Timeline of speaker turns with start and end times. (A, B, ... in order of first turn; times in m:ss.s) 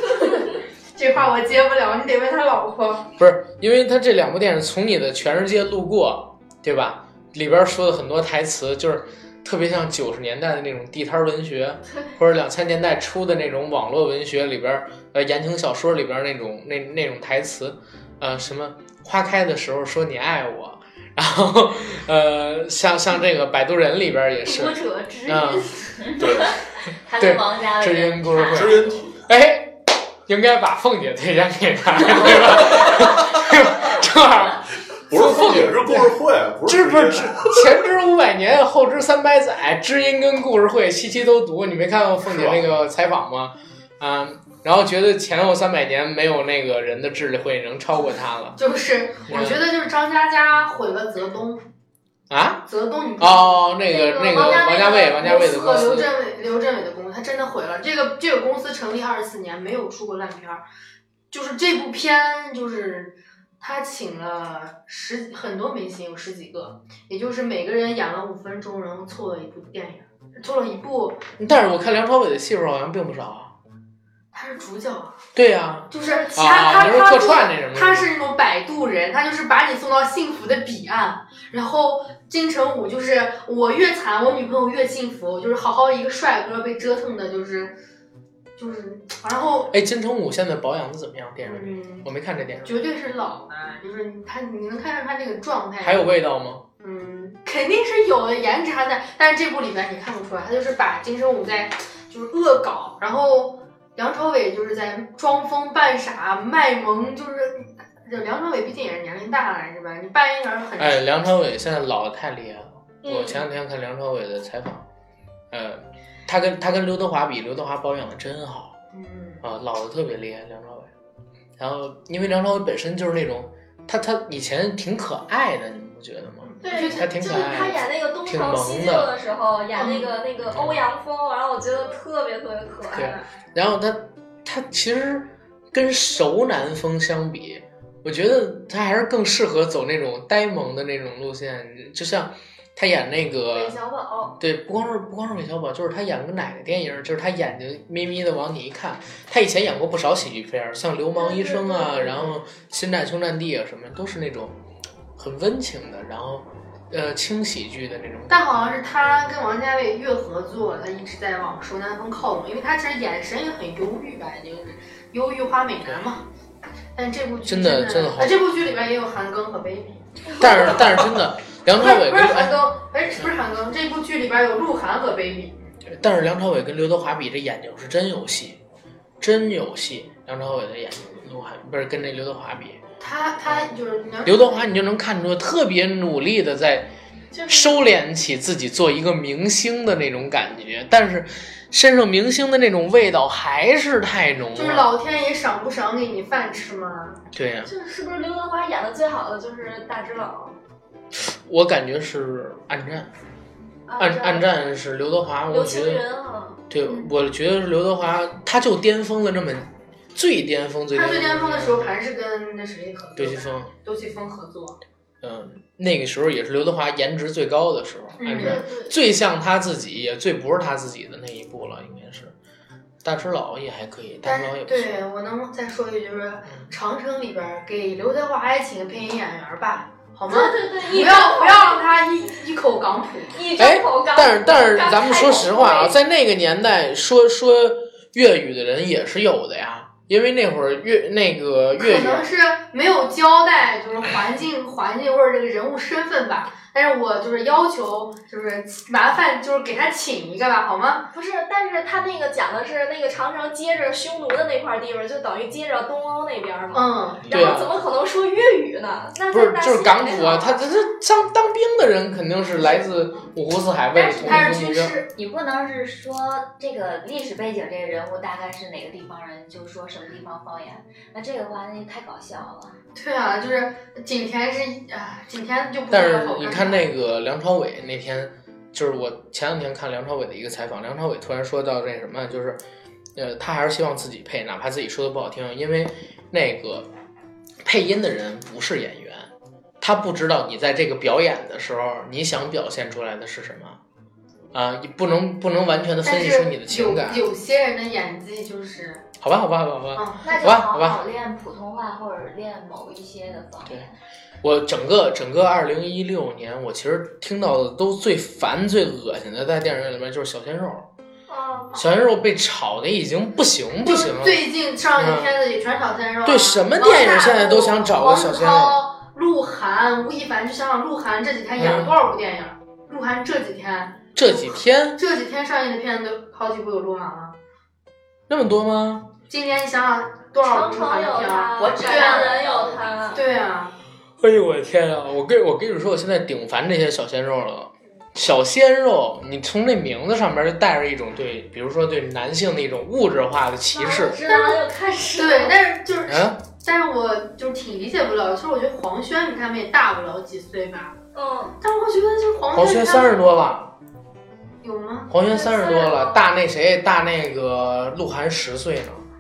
0:00.1-0:03.1 A
0:03.2-0:25.7 B
0:24.5-0:29.0 C
0:26.2-0:26.6 D
0:27.2-0:36.1 B
0:28.5-0:29.3 D
0:32.1-0:33.0 D
0:35.1-0:37.9 D
0:36.7-0:48.6 B
0:42.3-0:42.6 D
0:48.6-0:51.6 A
0:49.3-0:49.6 B
0:52.3-0:52.6 B
0:52.7-0:53.7 A
0:53.2-0:56.1 B
0:53.9-0:55.9 E
0:54.3-1:00.6 A
1:01.3-1:11.2 A
1:11.4-1:13.5 B
1:14.3-1:15.2 A
1:15.4-1:18.1 B
1:15.9-1:27.8 A
1:15.9-1:17.2 E
1:28.6-1:29.7 A
1:29.7-1:32.9 B
1:31.4-1:32.1 A
1:32.6-1:36.1 A
1:35.8-1:36.6 B
1:36.8-1:51.2 A
1:50.8-1:54.8 B
1:53.0-1:53.4 E
1:55.5-1:58.8 B
1:58.9-1:59.4 A
1:59.4-2:00.9 B
2:01.6-2:09.1 B
2:06.5-2:07.5 A
2:06.6-2:13.3 E
2:09.8-2:10.1 A
2:10.5-2:10.8 B
2:12.9-2:23.8 B
2:23.5-2:24.4 E
2:24.4-2:34.6 B
2:31.2-2:32.3 E
2:35.2-2:38.4 B
2:38.3-2:46.2 A
2:47.0-2:51.1 A
2:47.4-2:48.4 B
2:50.4-2:52.6 B
2:51.7-2:55.6 A
2:55.8-2:58.6 B
2:59.2-3:02.8 B
3:03.0-3:04.6 A
3:04.2-3:06.9 B
3:07.3-3:07.9 E
3:07.5-3:14.9 B
3:14.6-3:17.2 A
3:17.3-3:17.7 B
3:17.6-3:20.6 E
3:21.1-3:23.1 B
3:23.9-3:24.5 E
3:24.0-3:26.0 B
3:25.5-3:26.6 E
3:26.7-3:31.9 B
3:30.9-3:34.8 A
3:33.2-3:33.7 B
3:35.2-3:42.3 B
3:38.2-3:38.6 A
3:38.4-3:39.0 E
3:43.0-3:45.0 B
3:44.2-3:53.4 A
3:50.3-3:51.9 E
3:53.3-3:56.0 E
3:53.6-4:02.3 B
4:01.8-4:11.1 A
4:11.1-4:20.6 E
4:16.7-4:17.2 A
4:17.3-4:17.7 B
4:19.3-4:25.0 B
4:24.0-4:32.8 C
4:24.2-4:25.1 A
4:33.0-4:36.8 A
4:35.9-4:42.6 B
4:43.2-4:46.9 B
4:47.6-4:49.3 B
4:49.8-4:53.8 B
4:54.5-4:57.2 B
4:56.0-4:59.0 A
4:59.2-5:01.0 B
5:00.0-5:00.4 A
5:00.2-5:03.9 C
5:04.4-5:10.9 B
5:11.3-5:11.8 E
5:11.8-5:14.4 B
5:13.8-5:27.4 A
5:15.0-5:15.3 B
5:16.2-5:18.8 B
5:21.6-5:21.9 B
5:24.2-5:25.0 B
5:28.3-5:29.1 B
5:29.3-5:32.5 A
5:30.4-5:33.2 E
5:31.6-5:33.2 C
5:33.1-5:33.8 A
5:34.2-5:44.2 B
5:43.7-5:45.6 E
5:44.2-5:51.0 A
5:46.1-5:46.4 B
5:51.2-5:51.6 E
5:51.6-5:53.3 A
5:52.5-5:53.7 B
5:54.6-5:55.1 A
5:55.1-5:59.0 B
5:55.5-5:56.2 E